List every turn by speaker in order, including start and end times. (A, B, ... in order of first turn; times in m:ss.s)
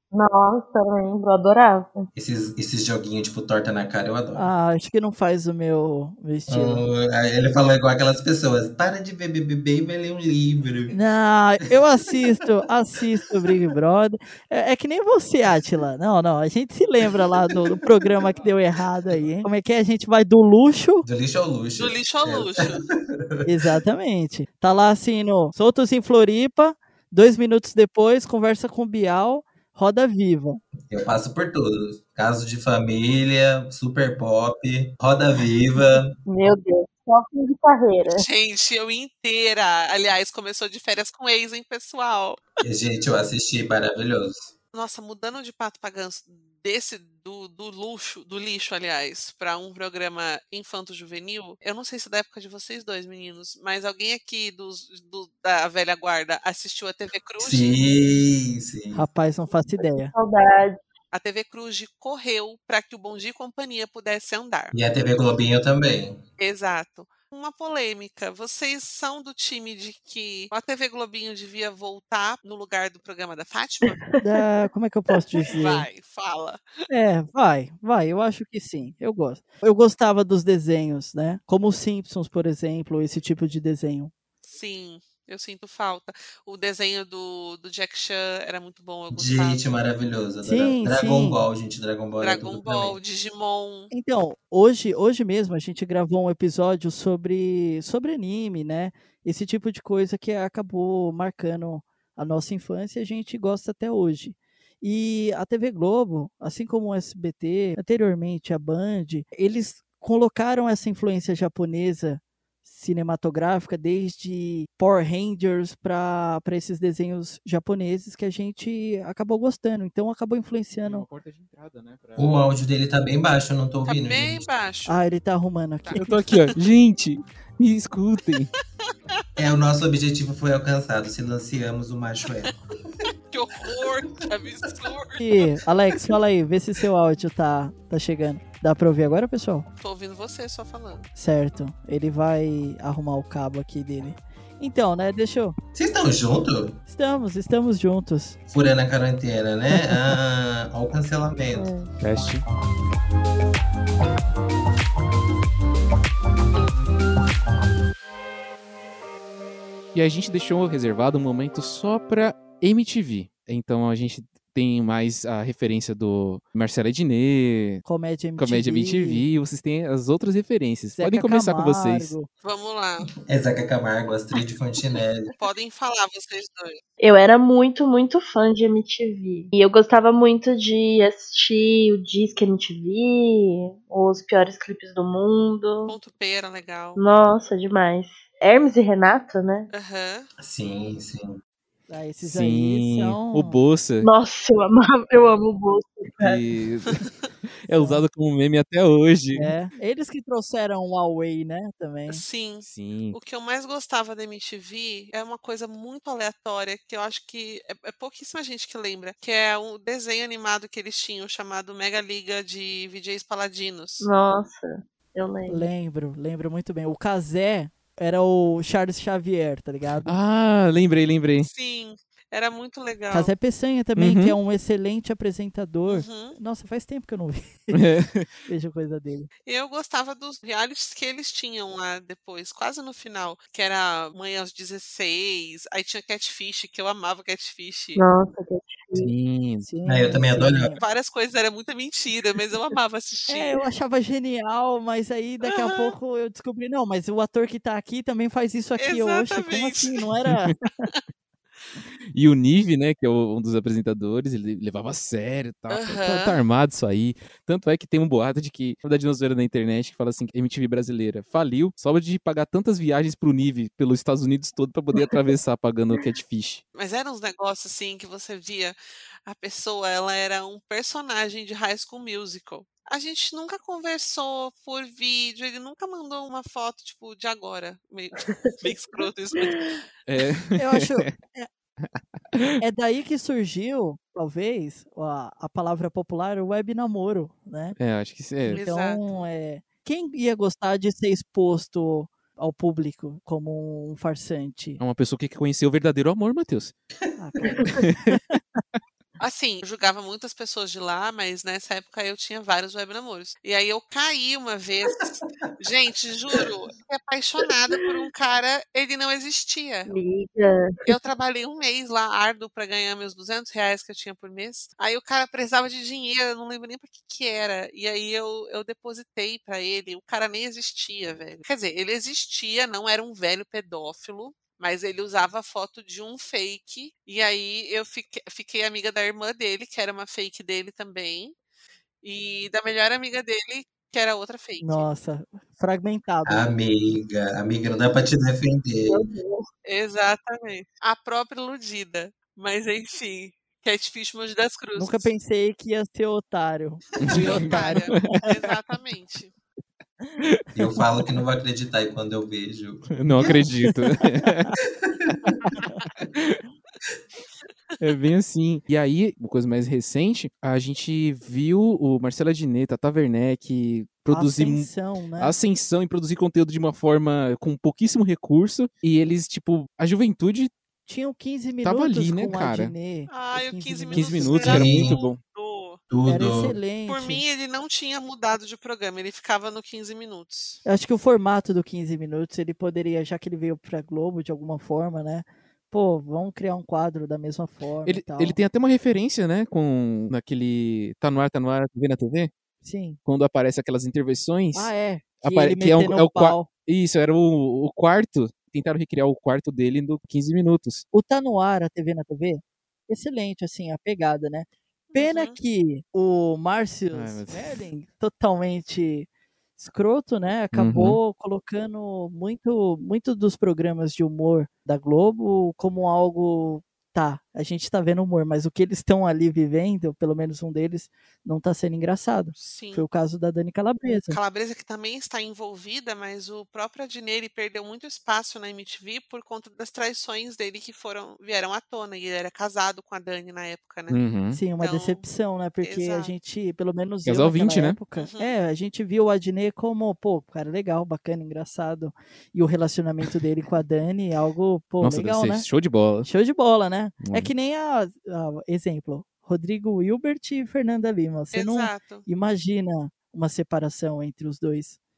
0:00.1-0:02.1 A
0:02.1-0:04.5 B
0:04.3-0:06.8 C
0:06.5-0:11.0 B
0:10.9-0:21.0 C
0:21.0-0:23.6 B
0:21.8-0:22.8 D
0:23.4-0:30.6 C
0:30.9-0:36.2 B
0:36.2-0:38.2 A
0:38.1-0:42.4 D
0:42.6-0:44.5 B
0:44.7-0:57.8 D
0:57.4-0:59.0 B
0:58.9-1:00.1 C
0:59.8-1:00.8 A
1:01.1-1:04.7 D
1:04.7-1:06.2 B
1:06.4-1:14.1 D
1:13.8-1:14.2 A
1:14.2-1:15.9 C
1:15.5-1:16.6 D
1:16.9-1:24.1 C
1:24.4-1:29.6 D
1:29.1-1:33.0 B
1:30.4-1:31.4 C
1:32.2-1:33.9 D
1:33.9-2:01.1 C
2:00.8-2:02.4 E
2:02.2-2:04.5 B
2:03.8-2:05.0 D
2:04.9-2:06.2 C
2:05.8-2:06.6 D
2:05.9-2:08.5 E
2:09.4-2:12.5 B
2:13.3-2:15.5 D
2:15.2-2:19.6 C
2:19.8-2:21.1 D
2:21.2-2:25.6 C
2:25.7-2:26.8 B
2:26.9-2:28.4 C
2:28.5-2:31.7 B
2:29.7-2:30.2 C
2:31.5-2:31.9 A
2:32.0-2:32.4 E
2:39.9-2:47.8 E
2:47.8-2:49.2 C
2:48.4-2:52.1 E
2:50.9-2:52.3 C
2:52.4-2:53.1 D
2:53.2-2:55.3 B
2:55.4-2:56.8 D
2:57.0-3:05.9 A
3:05.8-3:07.0 D
3:07.0-3:09.7 A
3:09.7-3:10.3 D
3:10.4-3:11.4 B
3:11.9-3:13.6 C
3:12.2-3:14.1 E
3:14.0-3:16.4 A
3:16.2-3:17.0 E
3:17.6-3:19.5 E
3:17.7-3:18.0 C
3:19.3-3:22.2 C
3:22.1-3:34.1 D
3:22.6-3:23.2 E
3:34.0-3:35.6 A
3:35.5-3:40.2 C
3:40.0-3:41.5 E
3:41.4-3:43.3 D
3:43.1-3:47.9 C
3:44.0-3:44.4 E
3:45.9-3:46.4 D
3:47.7-3:48.3 E
3:48.4-3:49.3 C
3:49.4-3:58.0 D
3:58.0-3:59.1 A
3:58.9-3:59.7 E
3:59.6-4:00.8 C
3:59.8-4:00.7 B
4:00.8-4:03.6 D
4:03.3-4:10.9 C
4:05.4-4:05.9 D
4:08.8-4:10.0 D
4:10.3-4:10.6 E
4:12.1-4:26.6 E
4:15.7-4:16.4 D
4:26.7-4:39.8 D
4:38.2-4:39.8 A
4:40.0-4:41.1 E
4:40.6-4:41.5 C
4:41.8-4:42.6 E
4:42.6-4:47.8 C
4:47.8-4:48.6 E
4:48.5-4:49.1 D
4:48.6-4:54.8 C
4:54.8-4:56.7 E
4:57.2-4:58.4 C
4:57.7-4:58.4 E
4:59.2-5:09.9 D
5:09.9-5:10.9 A
5:10.8-5:31.3 D
5:32.0-5:34.9 D
5:34.6-5:36.4 C
5:36.2-5:39.0 B
5:38.9-5:39.5 A
5:39.6-5:45.1 D
5:44.8-5:48.2 C
5:47.0-5:48.2 E
5:47.1-5:49.3 D
5:50.2-5:50.4 E
5:50.5-5:53.4 B
5:52.9-5:54.5 E
5:54.2-5:54.5 C
5:54.8-5:55.4 B
5:55.4-5:55.9 C
5:56.0-5:56.4 E
5:57.8-6:10.5 E
6:04.1-6:05.4 C
6:10.8-6:14.6 C
6:11.6-6:12.7 E
6:13.1-6:15.8 D
6:13.9-6:15.2 E
6:14.5-6:15.0 B
6:15.9-6:16.6 B
6:16.0-6:17.2 C
6:16.9-6:20.6 D
6:20.6-6:28.4 C
6:27.8-6:32.3 E
6:32.6-6:33.0 C
6:33.0-6:40.8 E
6:34.5-6:36.5 C
6:40.9-7:04.2 C
6:44.9-6:45.4 D
6:46.9-6:47.7 E
6:50.5-6:51.0 E
7:02.3-7:02.9 D
7:03.9-7:14.0 D
7:13.9-7:14.4 E
7:14.3-7:25.5 C
7:14.6-7:15.0 D
7:15.6-7:16.1 D
7:17.0-7:17.8 E
7:18.0-7:18.4 D
7:24.8-7:26.1 E
7:26.0-7:34.8 C
7:27.0-7:27.3 E
7:31.3-7:32.0 D